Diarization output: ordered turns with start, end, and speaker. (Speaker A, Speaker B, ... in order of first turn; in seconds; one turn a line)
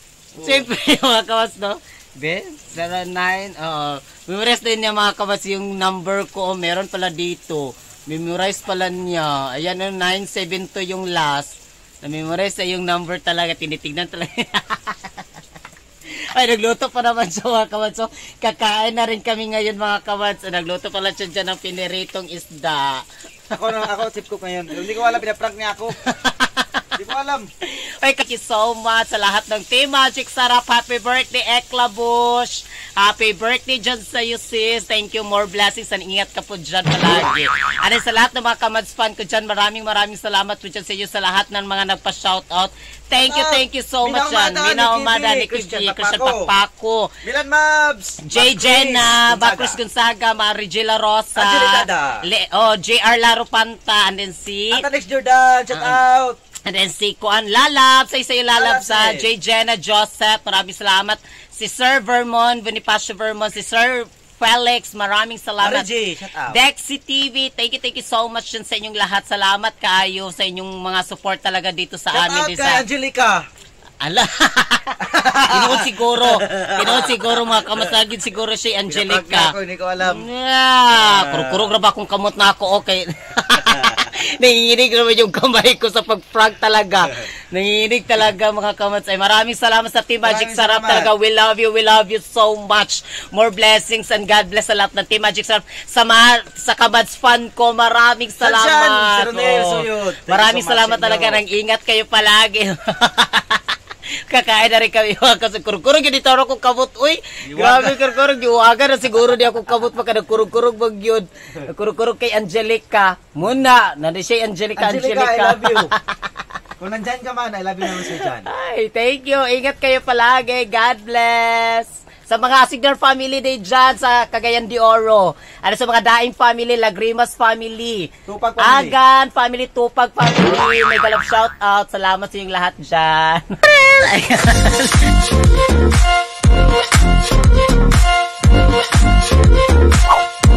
Speaker A: 0.3-0.7
Speaker B: 0.4-15.2
Speaker B: 16.3-23.1
Speaker A: 23.5-26.0
Speaker B: 26.0-26.9
Speaker A: 26.9-27.5
Speaker B: 27.6-47.1
Speaker A: 43.1-46.5
Speaker A: 47.2-49.8
Speaker B: 48.3-54.8
Speaker A: 51.4-52.2
Speaker A: 54.7-56.4
Speaker B: 55.7-56.0
Speaker B: 56.6-65.9
Speaker A: 58.5-59.3
Speaker A: 65.6-66.6
Speaker B: 66.5-72.8
Speaker A: 72.1-73.4
Speaker B: 74.0-103.8
Speaker A: 75.0-77.9
Speaker A: 78.9-80.3
Speaker A: 80.9-81.7
Speaker A: 83.6-84.1
Speaker A: 90.2-91.1
Speaker A: 98.4-101.4
Speaker B: 104.3-116.4
Speaker A: 107.4-108.0
Speaker A: 114.8-115.9
Speaker A: 116.8-118.5
Speaker B: 117.8-135.2
Speaker A: 128.3-128.9